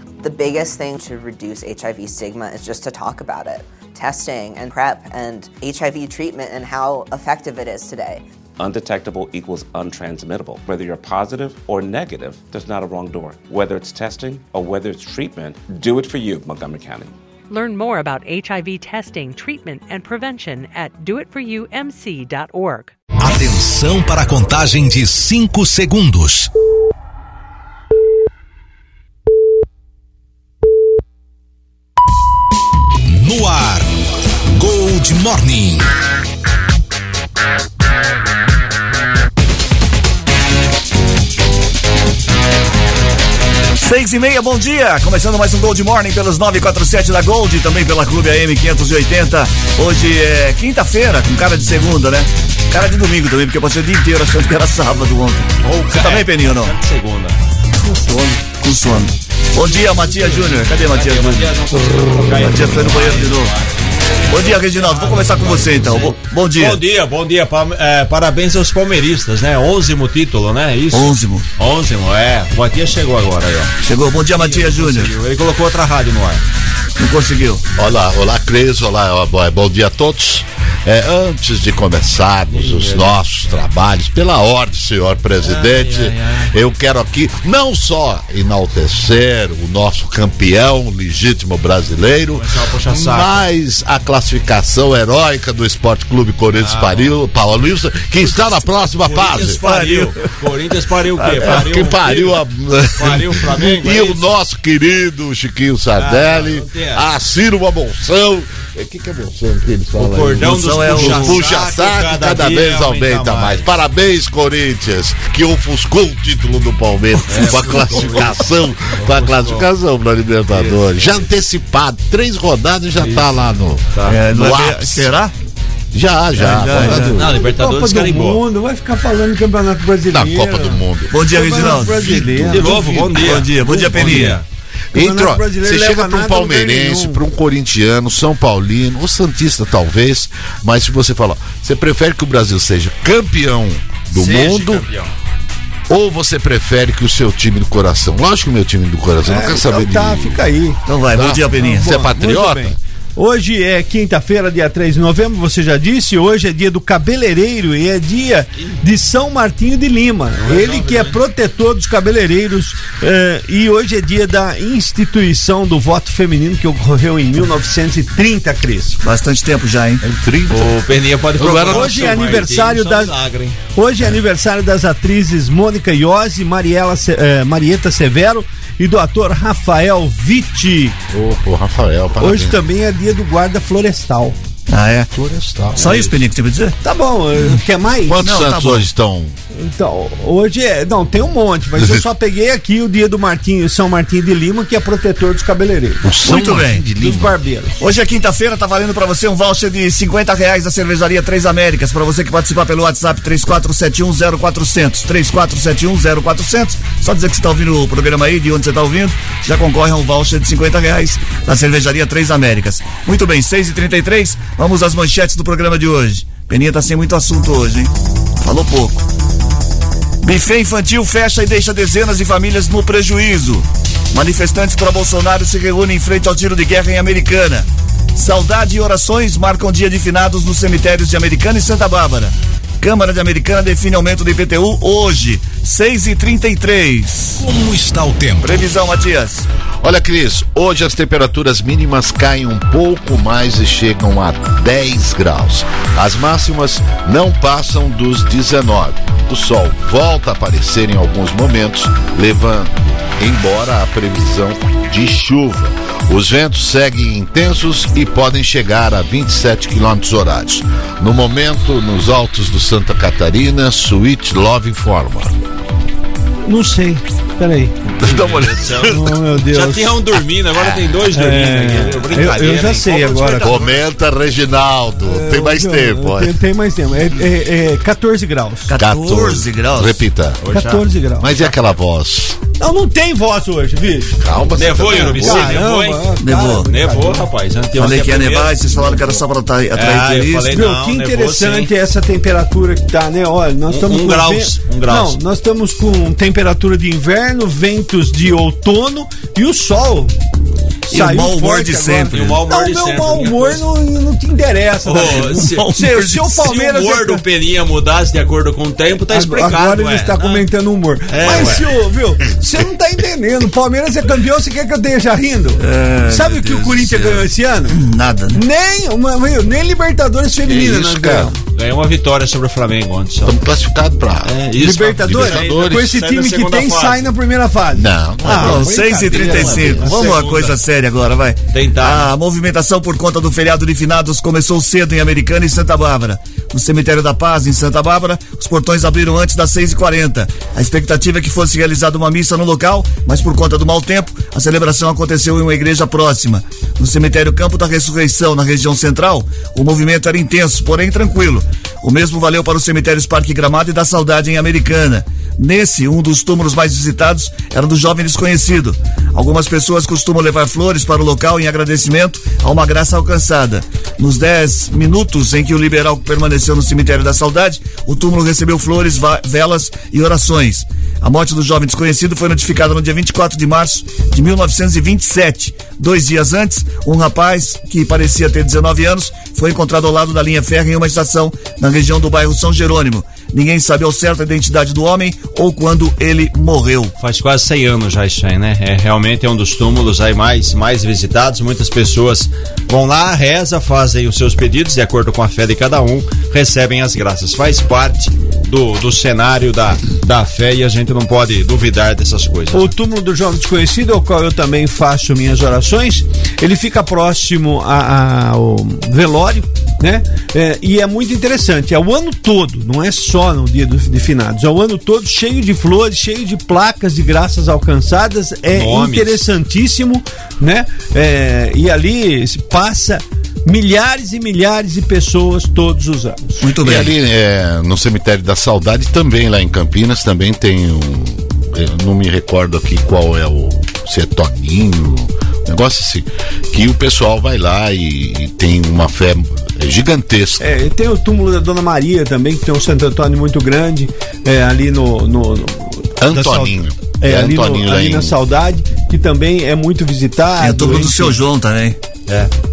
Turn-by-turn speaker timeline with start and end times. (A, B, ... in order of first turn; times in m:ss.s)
0:00.2-0:08.2 A
0:08.6-0:17.1 B
0:17.5-0:22.9 C
0:23.2-0:26.5 D
0:33.1-0:33.9 D
0:34.5-0:35.9 D
0:43.8-0:56.7 E
0:55.6-0:57.4 F
0:57.8-0:58.4 G
0:58.6-1:01.5 E
1:00.0-1:13.7 F
1:02.2-1:03.5 E
1:04.3-1:06.8 E
1:10.9-1:11.4 E
1:13.8-1:15.1 E
1:14.3-1:16.4 F
1:17.0-1:17.6 E
1:17.8-1:39.6 H
1:22.5-1:23.2 F
1:25.4-1:26.5 F
1:32.3-1:33.4 F
1:36.5-1:37.1 F
1:38.4-1:42.4 F
1:39.2-1:40.2 E
1:41.2-1:41.7 E
1:41.4-2:05.1 H
1:43.0-1:44.3 F
1:46.0-1:47.0 F
1:49.9-1:53.6 F
1:50.4-1:51.4 E
1:57.3-1:59.7 F
1:57.3-1:58.1 E
2:00.5-2:01.2 F
2:03.0-2:03.4 F
2:03.9-2:04.2 F
2:04.1-2:05.3 E
2:05.9-2:07.4 H
2:06.3-2:07.1 E
2:06.9-2:08.4 F
2:06.9-2:12.8 G
2:10.1-2:14.4 H
2:11.1-2:12.4 E
2:12.5-2:14.4 F
2:13.1-2:14.4 E
2:14.9-2:24.8 H
2:14.9-2:17.2 G
2:24.1-2:25.1 F
2:25.9-2:30.4 H
2:29.2-2:30.8 G
2:30.8-2:31.9 E
2:31.1-2:32.8 H
2:31.6-2:49.0 G
2:40.4-2:41.2 F
2:49.0-2:50.0 E
2:50.0-2:50.8 H
2:50.5-2:53.6 F
2:51.4-2:52.2 H
2:51.6-2:53.1 G
2:53.7-3:01.0 G
3:01.1-3:02.6 H
3:02.2-3:04.4 G
3:04.7-3:05.1 E
3:05.1-3:06.1 H
3:05.8-3:06.8 E
3:06.8-3:08.2 G
3:08.0-3:09.4 H
3:08.2-3:08.9 E
3:09.5-3:16.0 G
3:11.8-3:12.0 H
3:16.0-3:17.3 H
3:16.2-3:16.8 E
3:17.0-3:17.8 G
3:17.8-3:39.0 E
3:40.2-3:57.4 E
3:57.4-3:58.7 D
3:58.4-3:59.5 E
3:59.8-4:25.3 H
4:26.4-4:27.7 G
4:28.0-4:29.1 H
4:28.0-4:29.0 F
4:28.9-4:30.0 G
4:29.5-4:33.7 F
4:31.1-4:33.7 G
4:33.4-4:36.4 H
4:35.0-4:38.7 G
4:38.7-4:40.0 E
4:38.7-4:40.4 H
4:40.4-4:40.9 F
4:40.5-4:41.3 G
4:41.2-4:42.4 H
4:42.6-4:44.3 G
4:44.2-4:45.6 H
4:44.5-4:48.5 F
4:44.8-4:47.3 G
4:46.2-4:46.7 E
4:47.8-4:50.6 E
4:48.7-4:49.2 H
4:49.7-4:51.7 F
4:50.5-5:00.1 G
4:53.7-4:55.2 F
5:00.9-5:02.4 E
5:00.9-5:07.2 G
5:02.1-5:03.6 F
5:04.8-5:05.7 F
5:05.5-5:06.5 E
5:06.4-5:10.4 F
5:09.1-5:17.8 G
5:11.1-5:11.7 F
5:15.6-5:18.4 E
5:18.3-5:21.4 G
5:20.4-5:21.3 H
5:21.5-5:23.4 F
5:23.2-5:25.9 H
5:24.2-5:27.1 F
5:24.6-5:30.1 G
5:27.7-5:29.9 H
5:28.2-6:26.9 E
5:29.8-5:30.6 F
5:31.5-5:32.1 F
6:27.0-6:42.7 F
6:42.5-7:06.5 G
6:58.5-6:59.2 F
7:06.4-7:06.9 E
7:06.6-7:20.4 H
7:20.4-7:31.2 G
7:26.0-7:28.2 H
7:30.4-7:31.8 E